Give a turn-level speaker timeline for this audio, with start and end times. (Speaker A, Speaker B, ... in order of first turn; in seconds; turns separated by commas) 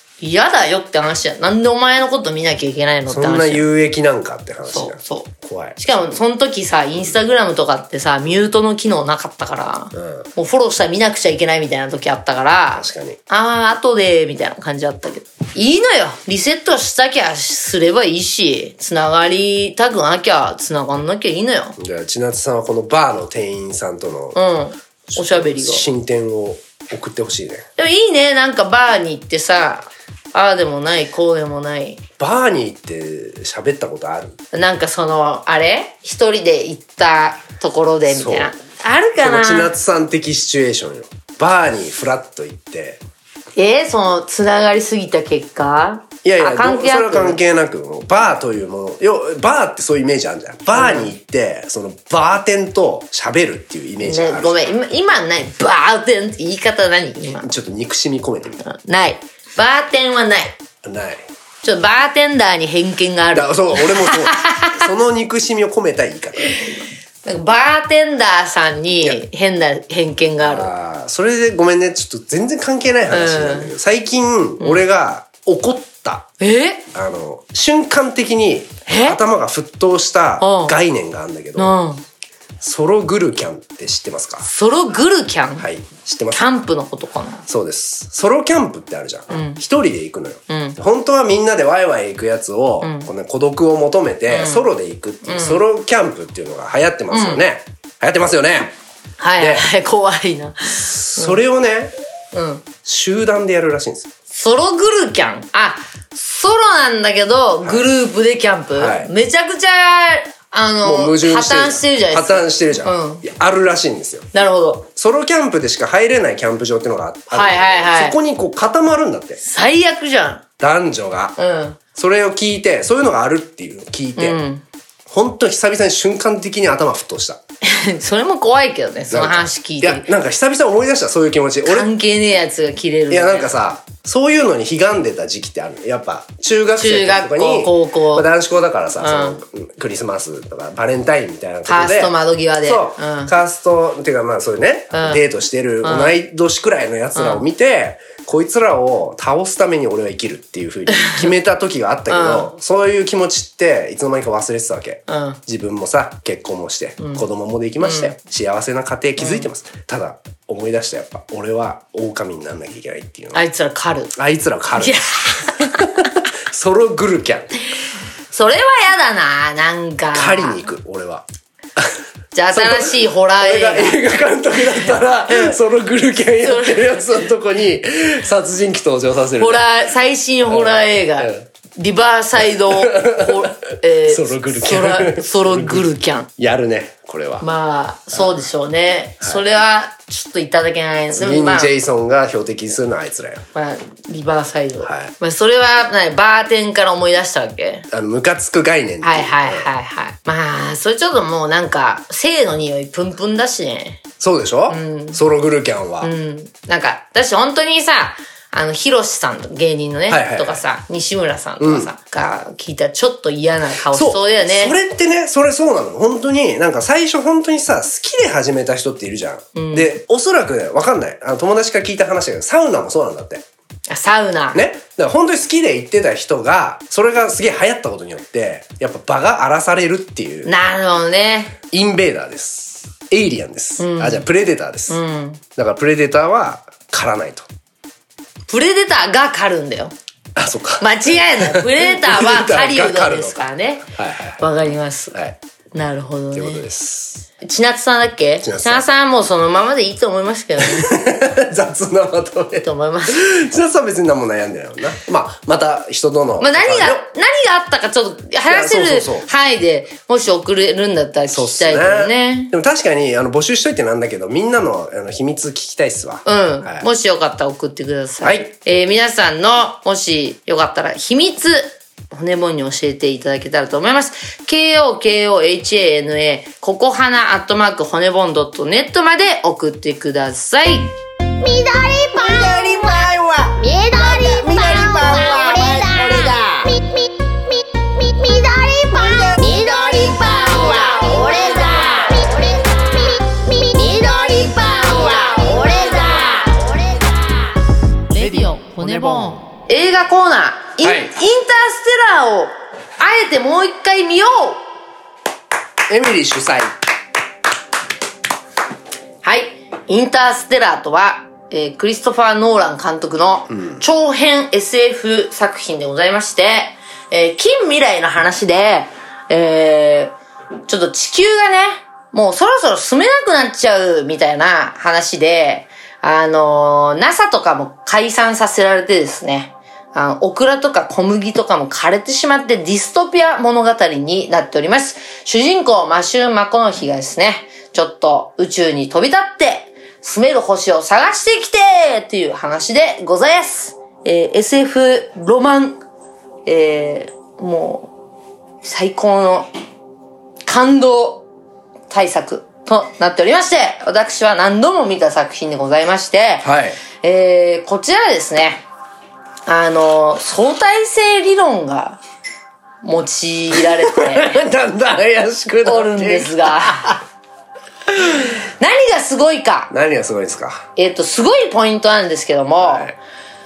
Speaker A: 0.2-3.6, Speaker B: 3.1-5.8, Speaker A: 4.7-21.8, Speaker B: 9.9-10.3, Speaker B: 12.8-13.2, Speaker B: 21.8-24.4, Speaker A: 24.4-25.8, Speaker B: 25.1-27.7, Speaker A: 27.8-32.0, Speaker B: 32.2-34.4, Speaker A: 34.5-39.7, Speaker B: 38.1-38.5, Speaker B: 39.2-43.0, Speaker A: 43.6-47.4, Speaker B: 46.2-54.6, Speaker A: 50.7-51.1, Speaker A: 54.0-57.5, Speaker B: 57.4-58.6, Speaker A: 58.6-60.6, Speaker B: 60.8-61.3, Speaker A: 61.6-64.9, Speaker B: 63.3-66.9, Speaker A: 67.2-70.7, Speaker B: 70.4-76.3, Speaker A: 73.1-73.7, Speaker A: 76.4-76.8, Speaker B: 76.9-81.8, Speaker A: 78.9-79.2, Speaker A: 80.4-80.8, Speaker A: 81.6-82.0, Speaker B: 82.6-84.5, Speaker A: 84.4-85.7, Speaker B: 85.6-86.5, Speaker A: 86.3-87.5, Speaker B: 87.5-98.7, Speaker A: 89.3-89.6, Speaker A: 90.5-90.8, Speaker A: 92.8-93.1, Speaker A: 94.3-94.7, Speaker A: 95.2-95.6, Speaker A: 97.1-97.4, Speaker A: 99.2-101.4, Speaker B: 99.4-99.7, Speaker B: 100.9-101.9, Speaker A: 102.3-102.7, Speaker B: 102.8-104.1, Speaker A: 104.3-113.2, Speaker B: 108.8-109.1, Speaker B: 110.8-114.3, Speaker A: 114.3-114.9, Speaker B: 115.0-119.4, Speaker A: 117.3-118.2, Speaker A: 119.4-120.4, Speaker B: 120.6-121.4, Speaker A: 121.4-121.8, Speaker B: 122.0-124.4, Speaker A: 124.2-124.7, Speaker B: 125.1-127.4, Speaker A: 127.6-130.1, Speaker B: 129.1-131.9, Speaker A: 131.7-133.5, Speaker B: 133.1-163.4, Speaker A: 136.8-138.3, Speaker A: 139.0-139.4, Speaker A: 141.7-143.3, Speaker A: 144.9-145.2, Speaker A: 145.8-146.2, Speaker A: 147.2-147.4, Speaker A: 150.9-151.3, Speaker A: 152.1-152.5, Speaker A: 155.1-155.4, Speaker A: 157.0-157.2, Speaker A: 157.8-158.1, Speaker A: 159.2-159.5, Speaker A: 163.3-164.1, Speaker B: 164.2-167.5, Speaker A: 164.8-165.9, Speaker A: 168.3-170.6, Speaker B: 170.1-171.2, Speaker A: 172.3-174.0, Speaker B: 172.5-179.7, Speaker A: 174.6-175.6, Speaker A: 176.4-177.0, Speaker A: 179.4-186.3, Speaker B: 180.5-181.5, Speaker B: 182.4-187.5, Speaker A: 187.4-191.7, Speaker B: 191.1-193.4, Speaker A: 193.6-197.9, Speaker B: 194.8-195.1, Speaker B: 197.9-199.7, Speaker A: 199.0-204.0, Speaker B: 204.2-206.1, Speaker A: 204.7-205.2, Speaker A: 206.0-214.8, Speaker B: 210.1-210.6, Speaker B: 211.6-211.9, Speaker B: 213.9-223.4, Speaker A: 219.6-219.9, Speaker A: 223.9-224.6, Speaker B: 224.5-230.5, Speaker A: 230.5-231.6, Speaker B: 231.7-235.0, Speaker A: 233.8-234.3, Speaker A: 234.9-235.4, Speaker B: 235.6-237.5, Speaker A: 238.5-239.9, Speaker B: 240.3-244.4, Speaker A: 240.8-243.9, Speaker A: 244.4-245.2, Speaker A: 245.7-246.6, Speaker B: 246.3-247.3, Speaker A: 247.4-250.9, Speaker B: 248.4-248.8, Speaker B: 250.6-257.1, Speaker A: 252.6-253.2, Speaker A: 256.4-262.5, Speaker B: 258.5-259.3, Speaker B: 261.3-266.9, Speaker A: 266.2-280.9, Speaker B: 268.2-268.5, Speaker C: 281.4-297.2, Speaker B: 282.5-283.2, Speaker B: 284.6-286.4, Speaker A: 291.1-292.0, Speaker A: 294.9-296.1, Speaker A: 298.1-304.6, Speaker B: 298.2-299.4, Speaker B: 300.8-301.1, Speaker B: 305.9-306.7, Speaker A: 309.2-320.1, Speaker B: 313.5-313.8, Speaker A: 320.7-345.8, Speaker A: 346.5-347.9, Speaker A: 348.6-349.5, Speaker A: 350.4-351.3, Speaker A: 351.9-356.5, Speaker B: 356.4-356.8, Speaker A: 357.0-358.6, Speaker A: 359.5-362.0, Speaker A: 362.8-364.4, Speaker B: 363.6-367.0, Speaker A: 365.6-367.0, Speaker A: 368.1-369.7, Speaker B: 369.7-370.7, Speaker A: 370.8-372.9, Speaker B: 372.6-373.0